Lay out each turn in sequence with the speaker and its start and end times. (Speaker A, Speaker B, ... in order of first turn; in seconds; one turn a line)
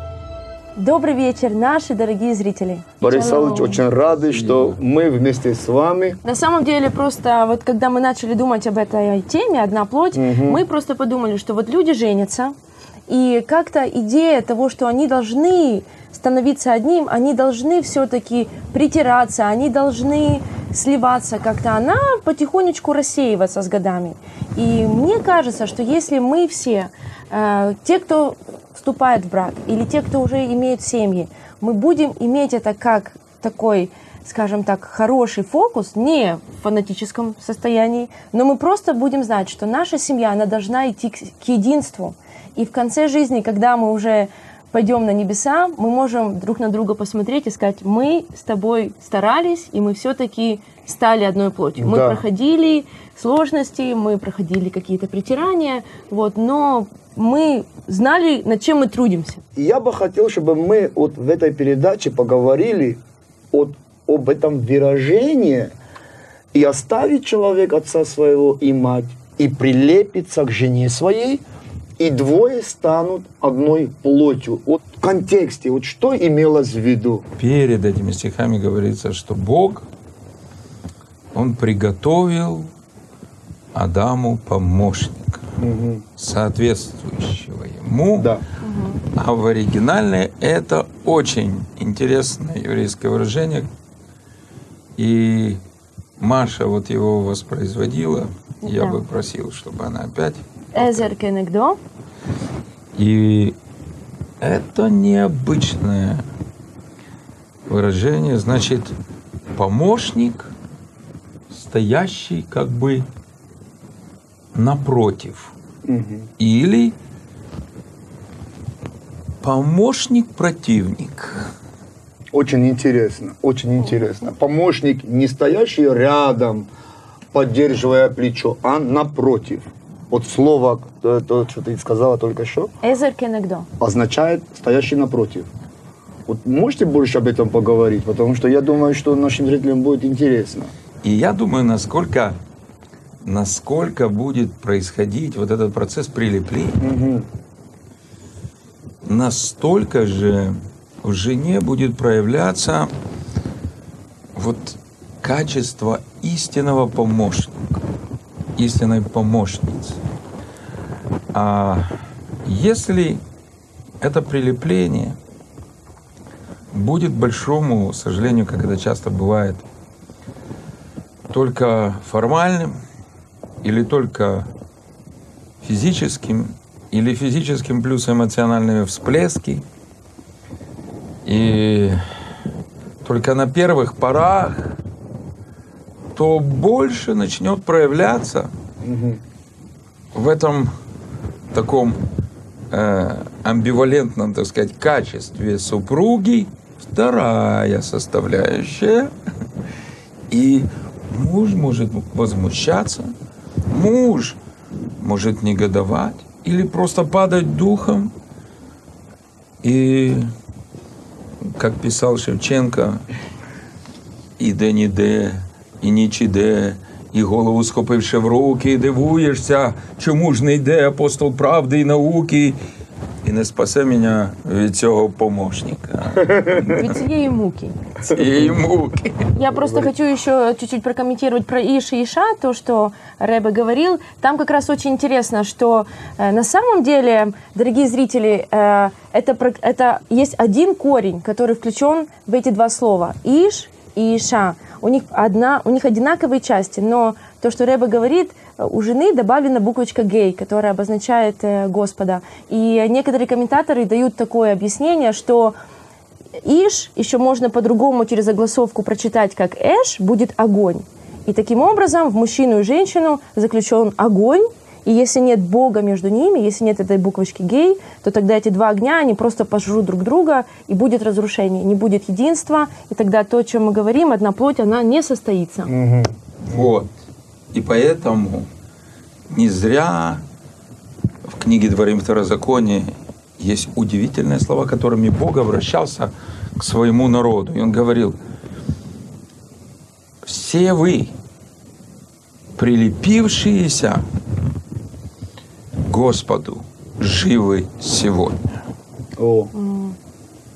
Speaker A: 0.8-3.8
Speaker B: 3.0-6.2
Speaker C: 4.2-4.8
Speaker A: 6.2-12.5
Speaker B: 10.1-10.6
Speaker A: 13.1-59.4
Speaker B: 51.8-52.2
Speaker B: 59.5-63.0
Speaker B: 63.5-65.7
Speaker B: 66.5-71.4
Speaker B: 72.0-77.2
Speaker C: 77.4-79.9
Speaker C: 81.3-82.7
Speaker C: 83.7-85.4
Speaker B: 85.6-86.0
Speaker C: 86.2-88.3
Speaker B: 88.1-88.4
Speaker A: 88.6-89.0
Speaker C: 89.1-93.7
Speaker C: 95.0-95.6
Speaker C: 96.2-101.1
Speaker A: 98.6-99.0
Speaker A: 100.7-101.8
Speaker C: 103.0-103.5
Speaker C: 104.4-106.2
Speaker C: 107.7-108.9
Speaker C: 109.5-110.5
Speaker C: 111.5-113.1
Speaker C: 114.5-115.5
Speaker B: 115.8-116.3
Speaker C: 116.4-116.9
Speaker C: 119.4-121.5
Speaker B: 122.3-126.7
Speaker B: 127.3-132.7
Speaker A: 132.8-133.7
Speaker B: 133.8-135.5
Speaker B: 136.3-140.7
Speaker C: 141.0-142.4
Speaker C: 143.2-146.8
Speaker B: 146.8-147.3
Speaker C: 149.0-152.9
Speaker C: 154.3-157.6
Speaker C: 158.6-160.0
Speaker C: 161.3-161.9
Speaker C: 162.4-163.2
Speaker C: 164.0-165.2
Speaker C: 166.7-169.6
Speaker C: 171.3-172.8
Speaker C: 173.6-174.5
Speaker C: 175.6-179.6
Speaker C: 181.2-182.0
Speaker C: 183.0-184.8
Speaker C: 186.1-188.5
Speaker B: 188.8-189.2
Speaker C: 190.1-190.7
Speaker C: 191.5-192.0
Speaker C: 192.7-199.1
Speaker C: 200.3-203.1
Speaker C: 203.7-204.4
Speaker C: 205.0-208.1
Speaker C: 209.6-210.3
Speaker C: 211.4-213.0
Speaker C: 214.4-222.6
Speaker C: 223.2-227.0
Speaker B: 226.2-226.6
Speaker A: 226.7-227.8
Speaker C: 228.0-229.3
Speaker B: 228.1-228.6
Speaker A: 229.3-255.6
Speaker B: 229.5-229.9
Speaker A: 256.4-275.7
Speaker B: 275.7-276.6
Speaker C: 276.5-276.9
Speaker C: 277.5-278.5
Speaker C: 279.3-280.2
Speaker C: 281.2-288.2
Speaker C: 290.2-291.1
Speaker C: 292.6-294.1
Speaker C: 295.8-298.6
Speaker B: 299.2-299.5
Speaker A: 299.5-300.0